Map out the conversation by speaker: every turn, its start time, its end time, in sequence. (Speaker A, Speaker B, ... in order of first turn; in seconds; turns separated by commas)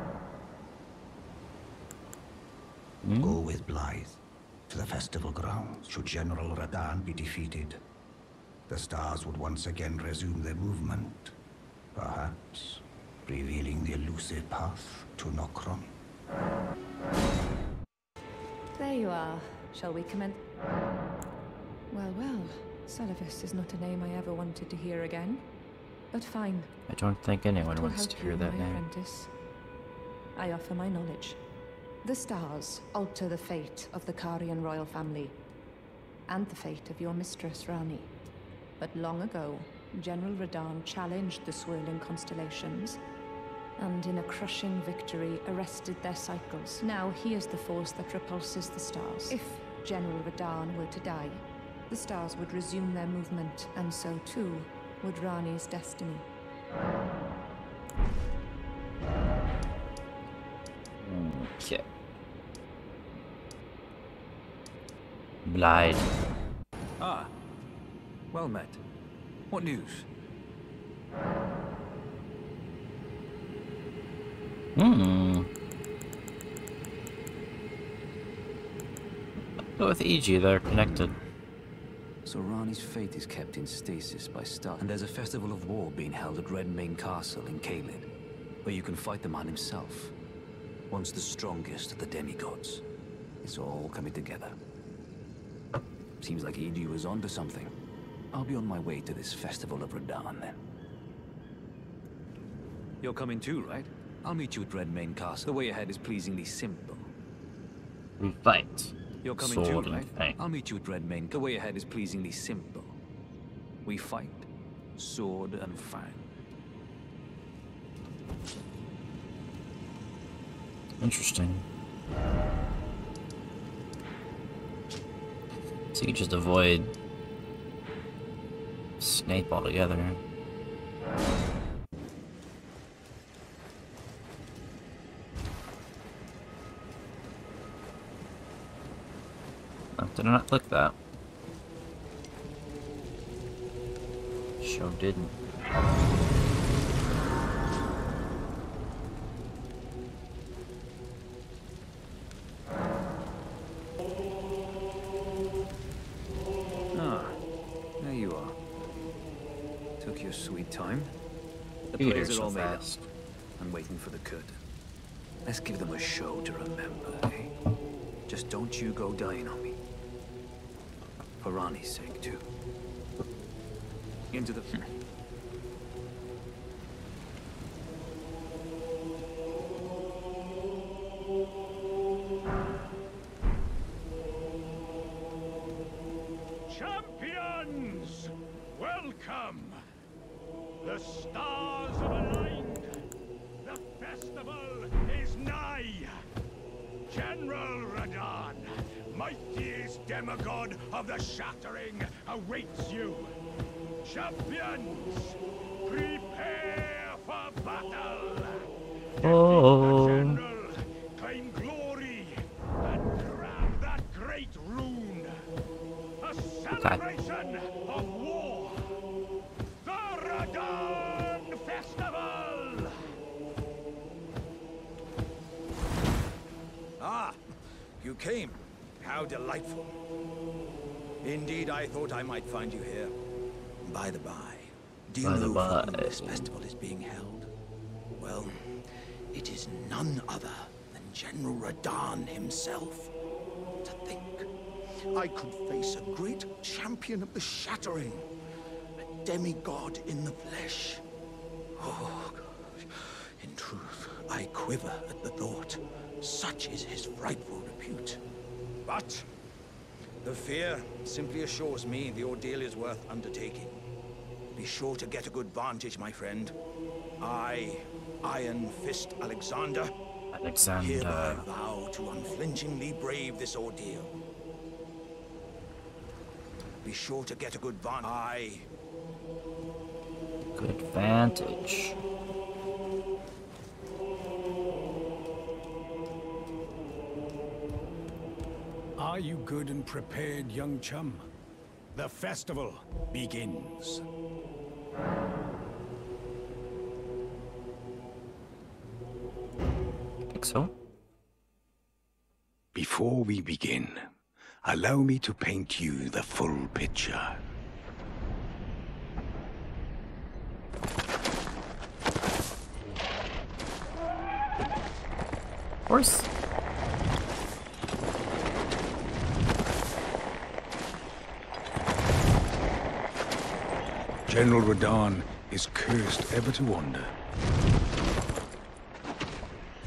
Speaker A: 3.0-3.4, Speaker B: 3.2-7.8, Speaker B: 8.7-11.3, Speaker B: 11.9-15.9, Speaker C: 18.8-20.4, Speaker C: 21.9-25.5, Speaker C: 26.1-26.7, Speaker A: 26.9-28.8, Speaker C: 27.7-29.3, Speaker C: 30.4-31.4, Speaker C: 32.0-35.4, Speaker C: 36.3-38.1, Speaker C: 38.8-43.0, Speaker C: 43.8-56.3, Speaker A: 61.0-61.8, Speaker A: 65.5-66.1, Speaker D: 67.0-67.3, Speaker D: 68.3-68.8, Speaker D: 69.5-70.1, Speaker A: 74.8-75.5, Speaker A: 79.7-81.2, Speaker D: 82.2-88.1, Speaker D: 88.6-90.1, Speaker D: 90.9-92.8, Speaker D: 93.4-94.6, Speaker D: 96.2-97.7, Speaker D: 98.3-100.6, Speaker D: 103.0-107.1, Speaker A: 108.2-110.4, Speaker D: 109.2-113.0, Speaker D: 113.8-116.2, Speaker A: 121.0-121.7, Speaker A: 125.9-126.9, Speaker A: 129.0-130.2, Speaker A: 140.0-141.0, Speaker A: 144.6-145.3, Speaker D: 156.9-157.4, Speaker D: 158.0-158.6, Speaker D: 160.0-161.1, Speaker D: 161.9-162.9, Speaker A: 162.0-163.1, Speaker D: 163.6-164.6, Speaker D: 165.5-167.5, Speaker D: 168.3-169.8, Speaker D: 171.4-172.4, Speaker D: 174.3-174.9, Speaker E: 186.8-188.0, Speaker E: 188.8-189.7, Speaker E: 191.9-192.7, Speaker E: 194.0-196.1, Speaker E: 197.1-198.6, Speaker E: 199.3-203.3, Speaker E: 204.1-205.2, Speaker E: 206.0-206.9, Speaker F: 207.9-208.5, Speaker A: 209.2-210.4, Speaker E: 211.6-212.2, Speaker F: 212.9-215.3, Speaker F: 216.6-218.8, Speaker A: 216.7-217.0, Speaker F: 219.8-223.0, Speaker F: 227.0-227.4, Speaker F: 228.0-230.0, Speaker F: 231.2-233.1, Speaker F: 233.8-237.5, Speaker A: 235.2-236.5, Speaker F: 238.2-238.5, Speaker F: 239.3-243.1, Speaker F: 243.8-244.5, Speaker F: 245.1-248.3, Speaker F: 249.2-251.0, Speaker F: 251.8-258.2, Speaker F: 258.9-259.3, Speaker F: 260.2-263.8, Speaker F: 264.6-266.6, Speaker F: 267.2-269.9, Speaker A: 270.3-271.5, Speaker F: 270.8-274.2, Speaker F: 276.8-278.7, Speaker A: 280.6-282.0, Speaker E: 289.0-291.3, Speaker E: 291.9-294.0, Speaker A: 300.4-300.7, Speaker E: 302.7-304.1, Speaker E: 304.6-307.4, Speaker A: 315.9-316.3, Speaker E: 324.3-327.1